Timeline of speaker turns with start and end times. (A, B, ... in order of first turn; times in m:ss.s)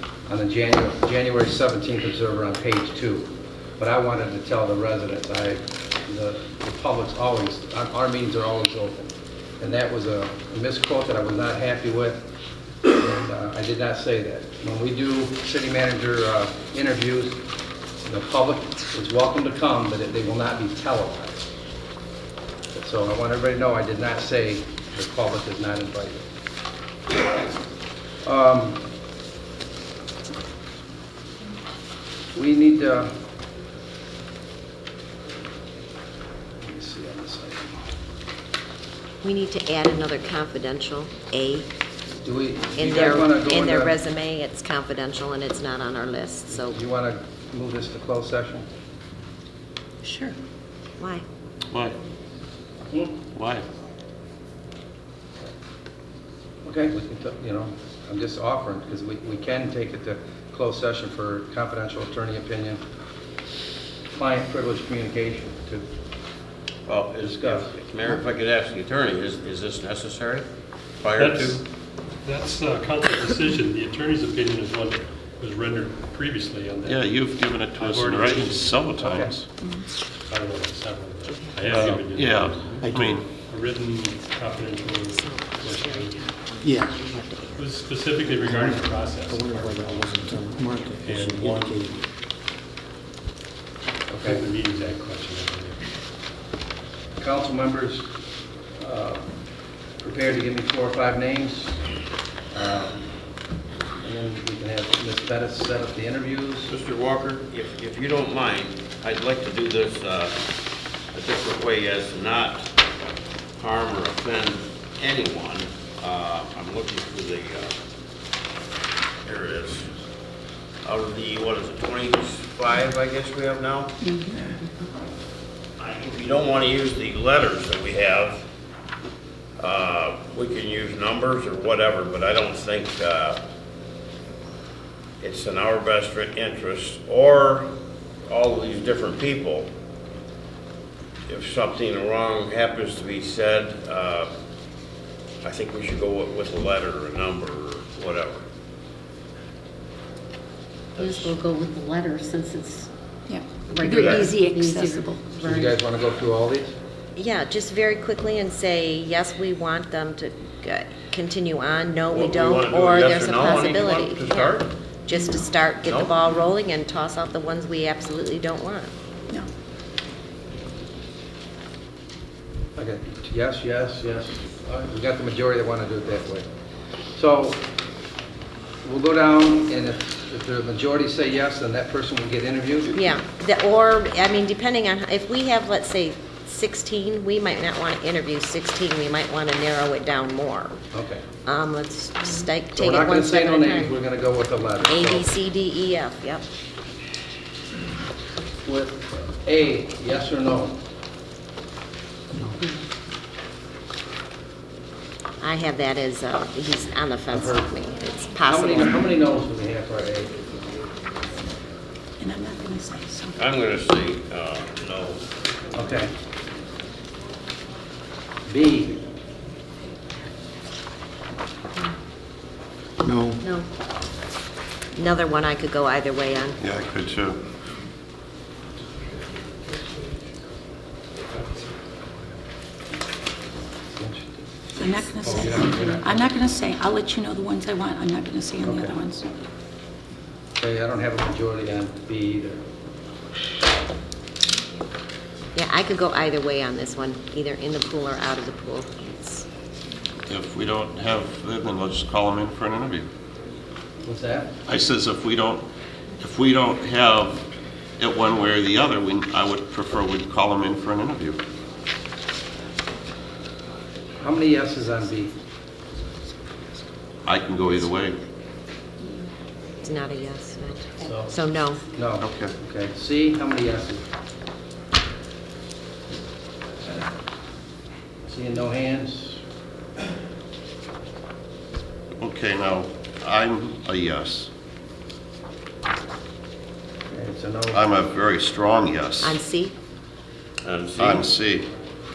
0:00.3-0:12.2 A
0:13.0-0:17.4 A
0:18.0-0:21.5 A
0:22.7-0:26.3 A
0:28.2-0:28.8 A
0:32.3-0:33.1 A
0:36.6-0:37.8 A
0:39.2-0:41.7 B
0:42.2-0:44.0 A
0:42.8-0:46.8 B
0:46.5-0:48.7 A
0:50.0-0:50.4 C
0:51.0-0:51.2 B
0:51.7-0:52.0 D
0:53.3-0:53.7 D
0:56.6-1:02.8 A
1:04.1-1:05.9 A
1:06.9-1:10.5 E
1:07.2-1:07.7 A
1:11.0-1:11.6 E
1:11.2-1:11.6 F
1:12.2-1:17.1 F
1:16.8-1:19.5 D
1:17.8-1:18.8 F
1:19.0-1:19.3 A
1:20.3-1:26.3 F
1:21.4-1:21.8 B
1:21.7-1:23.3 D
1:25.2-1:27.6 B
1:26.6-1:26.9 G
1:27.6-1:31.8 F
1:28.4-1:32.0 G
1:34.1-1:34.4 A
1:34.2-1:35.9 F
1:37.2-1:38.1 A
1:38.8-1:39.3 A
1:40.0-1:41.8 A
1:42.5-1:43.0 A
1:44.0-1:46.7 A
1:46.7-1:50.4 E
1:51.1-1:52.7 E
1:53.6-1:57.7 E
1:59.2-1:59.9 E
2:00.8-2:04.0 E
2:04.0-2:04.6 C
2:05.8-2:08.4 E
2:09.6-2:13.4 E
2:15.2-2:17.7 E
2:18.3-2:19.7 E
2:21.3-2:24.3 E
2:25.4-2:28.4 E
2:31.0-2:31.4 E
2:31.0-2:32.9 H
2:33.3-2:35.3 C
2:33.7-2:35.7 H
2:33.9-2:34.3 E
2:35.4-2:36.8 A
2:37.2-2:48.9 B
2:42.1-2:44.7 E
2:45.8-2:46.1 E
2:52.8-2:56.5 A
2:57.1-2:57.6 A
2:58.8-3:03.0 A
3:02.9-3:10.8 B
3:10.9-3:11.2 A
3:11.4-3:14.0 B
3:12.7-3:15.3 A
3:14.9-3:16.5 B
3:18.6-3:20.8 A
3:22.6-3:22.8 H
3:25.4-3:29.0 B
3:27.3-3:27.7 A
3:28.4-3:30.3 A
3:32.2-3:33.5 C
3:33.4-3:35.2 E
3:35.7-3:36.1 A
3:38.5-3:39.0 A
3:43.0-3:43.4 G
3:43.4-3:43.7 H
3:45.0-3:46.6 B
3:46.6-3:47.4 D
3:53.9-3:56.3 A
3:54.8-3:59.3 C
3:58.6-3:59.0 A
4:00.6-4:02.6 A
4:05.6-4:09.4 B
4:10.3-4:13.1 D
4:14.0-4:14.5 A
4:14.7-4:15.7 D
4:16.2-4:17.4 D
4:18.0-4:21.4 D
4:24.2-4:25.3 A
4:27.2-4:28.2 D
4:29.8-4:31.8 B
4:31.0-4:31.4 A
4:31.9-4:34.0 A
4:32.2-4:32.6 D
4:38.3-4:39.4 A
4:42.2-4:44.5 D
4:47.1-4:47.8 A
4:47.7-4:49.4 D
4:49.2-4:49.8 B
4:50.6-4:51.3 E
4:51.0-4:51.7 D